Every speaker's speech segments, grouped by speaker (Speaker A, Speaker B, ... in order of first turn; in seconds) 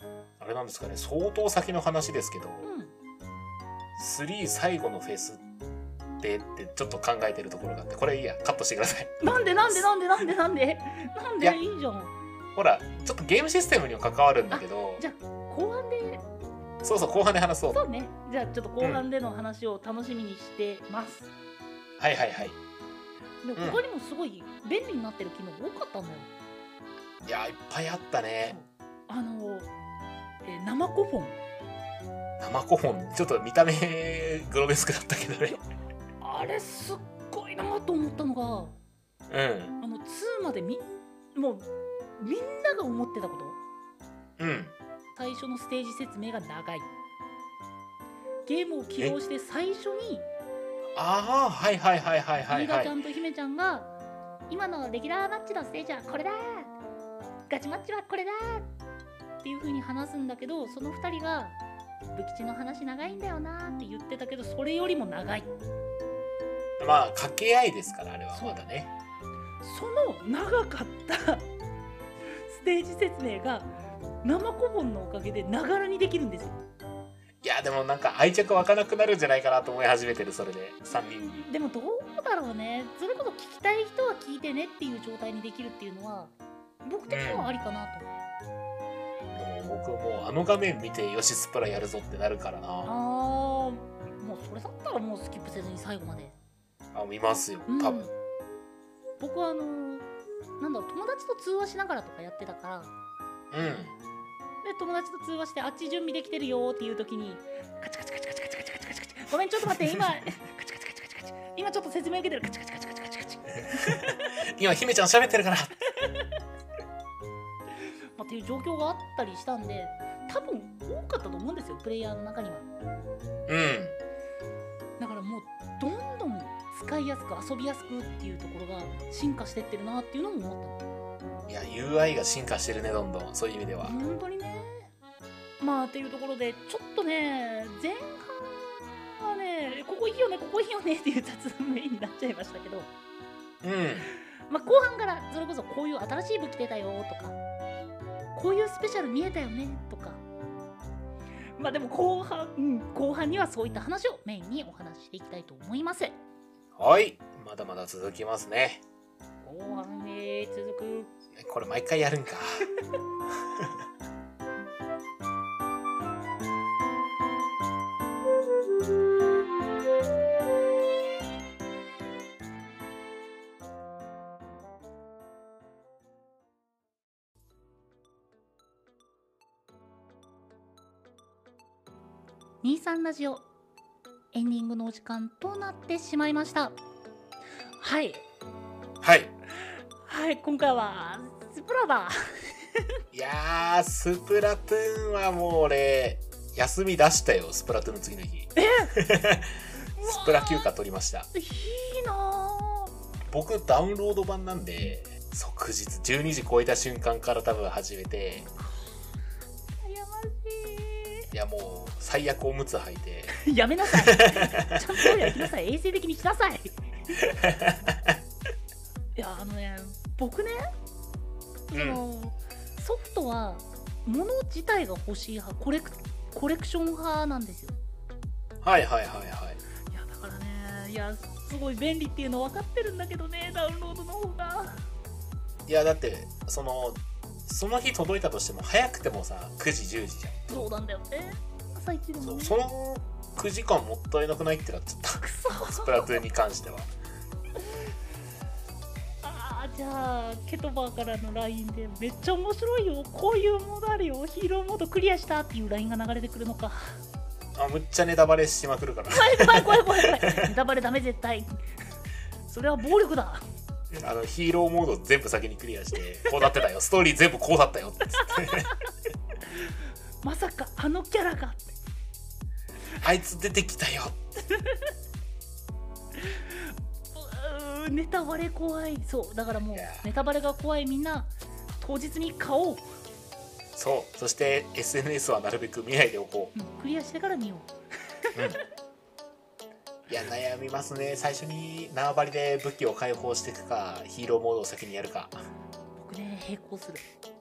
Speaker A: 0.4-2.7, 4.0-5.4, 6.2-9.9, 12.5-15.0, 16.8-17.8, 18.8-19.0, 22.0-22.6, 23.6-23.8, 27.2-28.6, 32.4-35.6, 39.3-39.7, 44.4-44.7, 50.9-52.9, 66.8-68.9, 77.4-81.4, 87.1-87.5, 89.3-92.9, 96.9-98.0, 103.5-103.9, 109.6-110.1, 113.8-115.8, 123.5-124.0, 131.5-134.0, 143.6-144.1, 156.8-158.8, 161.3-162.6, 189.0-189.3, 193.1-201.3, 203.3-208.5, 211.3-213.4, 213.9-215.5, 217.2-218.2, 221.7-222.0, 228.6-229.6, 235.7-240.7, 242.2-246.9, 257.5-260.4, 263.9-268.7, 273.0-274.2, 279.7-280.1, 283.8-286.5, 290.1-295.4
Speaker B: 2.6-2.9, 9.2-12.1, 14.5-16.2, 17.7-21.3, 23.4-26.3, 28.5-29.7, 30.4-31.4, 36.2-38.8, 39.8-43.6, 45.1-46.9, 48.5-50.3, 52.5-53.9, 54.5-56.7, 57.5-58.7, 59.4-61.6, 62.1-65.5, 68.3-68.6, 69.6-71.5, 72.5-73.7, 74.2-76.6, 80.9-86.3, 86.8-88.1, 92.8-96.3, 97.7-98.1, 99.2-100.1, 100.6-102.9, 104.6-114.3, 118.2-122.7, 125.0-130.8, 133.8-134.9, 135.6-142.9, 144.5-147.4, 148.3-150.2, 151.6-156.2, 159.4-161.1, 182.6-183.4, 184.3-186.8, 187.8-188.2, 190.1-192.5, 198.6-198.9, 199.9-200.7, 201.3-202.9, 208.6-208.9, 209.7-211.3, 213.3-216.9, 219.2-220.7, 221.7-227.8, 229.9-234.9, 240.5-242.6, 245.2-246.2, 249.2-257.0, 259.1-261.5, 262.5-263.4, 268.2-268.6, 270.2-271.8, 276.1-282.9, 286.5-287.7, 296.0-297.1